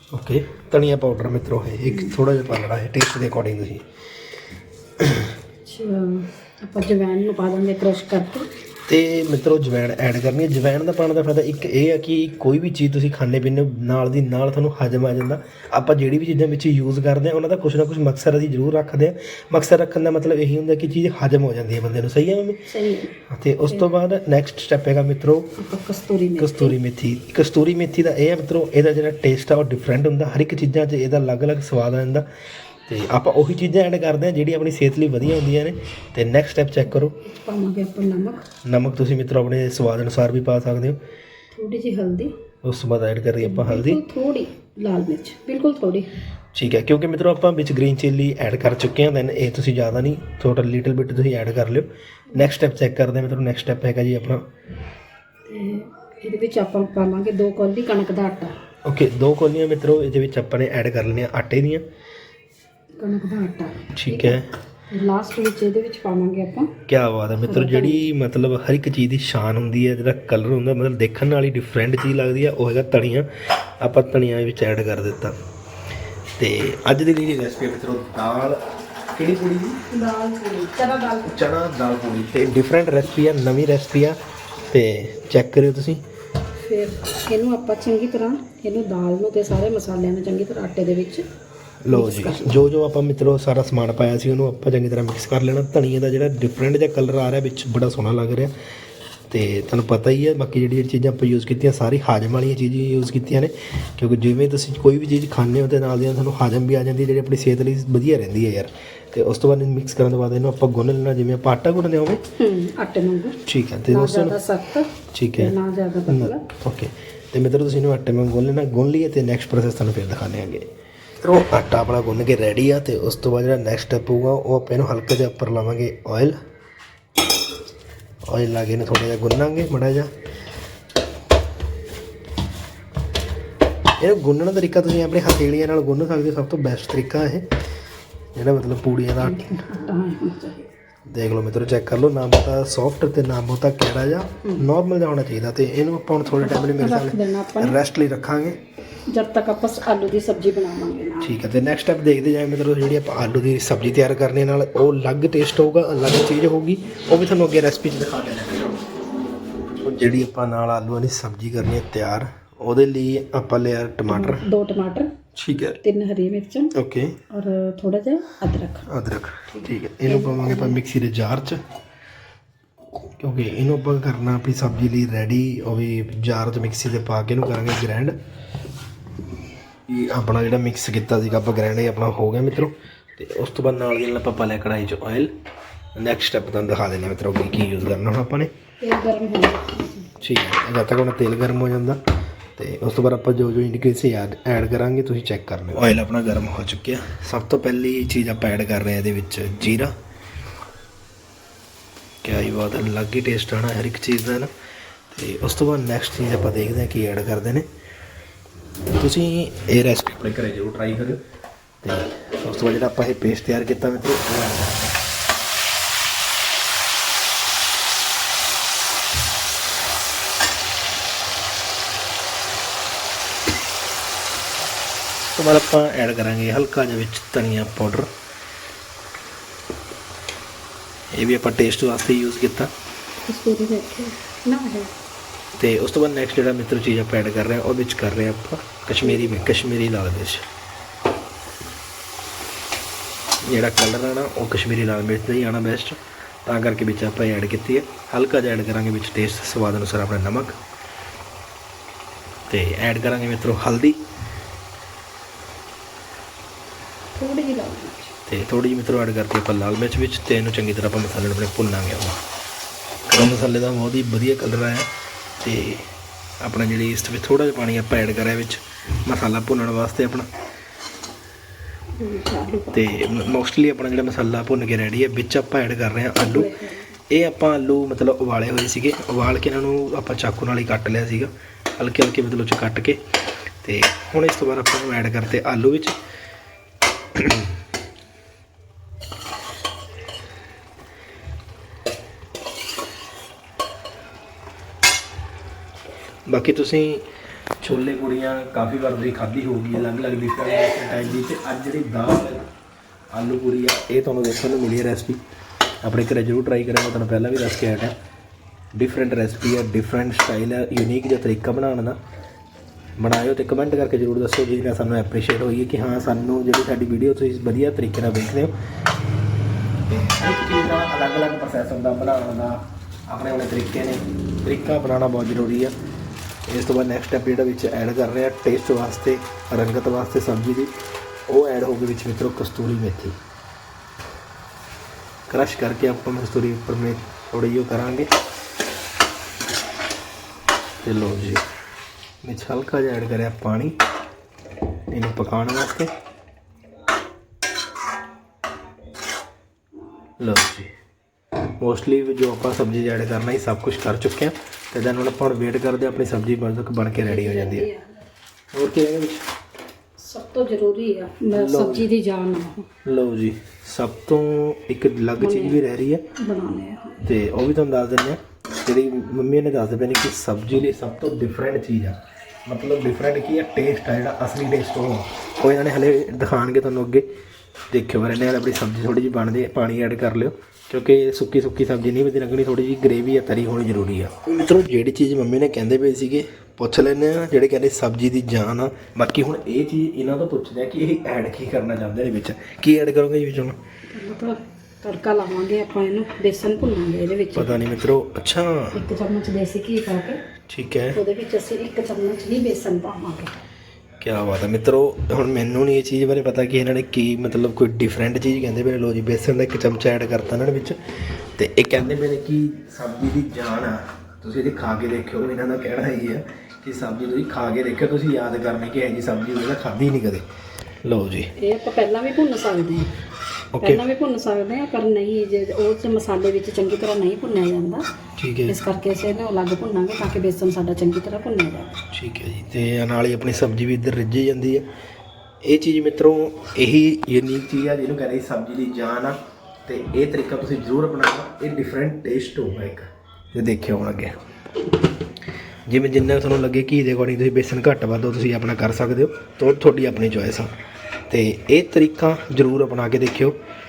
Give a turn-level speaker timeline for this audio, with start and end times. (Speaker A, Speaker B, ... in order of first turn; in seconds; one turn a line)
Speaker A: 0.1-3.9
Speaker B: 1.9-2.1
Speaker A: 5.0-5.3
Speaker B: 5.6-8.5
Speaker A: 8.9-22.7
Speaker B: 22.7-23.1
Speaker A: 23.2-25.6
Speaker B: 25.6-26.8
Speaker A: 26.4-32.3
Speaker A: 32.9-37.1
Speaker B: 37.1-38.5
Speaker A: 38.6-41.0
Speaker B: 41.5-42.3
Speaker A: 42.6-44.0
Speaker B: 43.4-46.1
Speaker A: 46.5-54.4
Speaker B: 55.5-58.5
Speaker A: 58.9-61.8
Speaker B: 63.0-64.4
Speaker A: 63.9-64.5
Speaker B: 64.9-66.7
Speaker A: 66.9-75.4
Speaker B: 67.4-68.1
Speaker A: 76.4-78.6
Speaker A: 79.1-79.8
Speaker B: 79.9-81.4
Speaker A: 81.2-84.2
Speaker A: 84.7-86.0
Speaker B: 86.6-91.2
Speaker A: 91.8-98.5
Speaker B: 91.9-92.6
Speaker A: 99.3-112.2
Speaker B: 112.4-116.4
Speaker A: 113.5-114.4
Speaker A: 115.1-115.5
Speaker A: 116.1-120.7
Speaker A: 121.2-126.4
Speaker A: 128.2-130.1
Speaker A: 134.0-137.5
Speaker A: 138.3-139.6
Speaker B: 139.2-140.7
Speaker A: 141.1-148.6
Speaker B: 146.3-147.8
Speaker B: 149.1-151.3
Speaker A: 151.2-158.8
Speaker A: 159.8-164.4
Speaker B: 164.1-165.1
Speaker A: 165.4-165.8
Speaker B: 165.8-166.7
Speaker A: 166.7-167.2
Speaker B: 167.3-168.9
Speaker A: 168.9-171.6
Speaker B: 169.5-170.8
Speaker A: 173.2-178.2
Speaker A: 179.9-185.3
Speaker A: 185.9-188.5
Speaker B: 188.8-190.1
Speaker A: 190.2-192.0
Speaker A: 192.6-199.9
Speaker A: 202.2-204.5
Speaker A: 205.1-207.7
Speaker A: 208.9-211.2
Speaker A: 211.8-214.9
Speaker A: 225.3-228.1
Speaker A: 231.1-232.7
Speaker B: 233.2-234.9
Speaker A: 235.5-240.5
Speaker B: 239.0-239.3
Speaker A: 243.5-250.6
Speaker A: 252.5-254.0
Speaker B: 257.1-258.1
Speaker A: 258.2-262.2
Speaker A: 263.1-264.9
Speaker A: 265.4-265.9
Speaker A: 266.4-270.3
Speaker B: 272.0-272.9
Speaker A: 272.7-276.5
Speaker B: 276.2-276.9
Speaker A: 277.1-283.0
Speaker A: 283.6-286.0
Speaker A: 287.1-287.5
Speaker A: 296.3-297.0
Speaker A: 297.6-302.4
Speaker A: 303.1-305.2
Speaker A: 305.8-307.9
Speaker A: 308.8-312.0
Speaker A: 313.0-318.5
Speaker A: 319.9-325.7
Speaker A: 326.5-330.7
Speaker A: 331.3-333.2
Speaker A: 335.3-338.1
Speaker A: 340.8-341.4
Speaker A: 342.2-343.8
Speaker A: 344.9-345.9
Speaker A: 350.2-350.7
Speaker A: 351.6-357.7
Speaker B: 357.0-358.0
Speaker A: 358.5-359.2
Speaker B: 360.0-362.7
Speaker A: 361.3-361.9
Speaker A: 362.9-366.0
Speaker B: 365.2-365.6
Speaker B: 366.1-367.0
Speaker A: 367.0-377.1
Speaker A: 377.7-393.6
Speaker B: 393.9-397.7
Speaker A: 397.4-398.8
Speaker B: 398.7-400.2
Speaker A: 400.5-401.0
Speaker B: 400.9-403.3
Speaker A: 404.0-420.2
Speaker A: 420.8-421.3
Speaker B: 421.4-422.9
Speaker A: 423.5-423.9
Speaker B: 423.6-427.9
Speaker A: 428.2-428.6
Speaker B: 428.5-431.8
Speaker A: 431.9-434.6
Speaker A: 435.4-444.2
Speaker A: 445.7-450.5
Speaker A: 451.1-453.4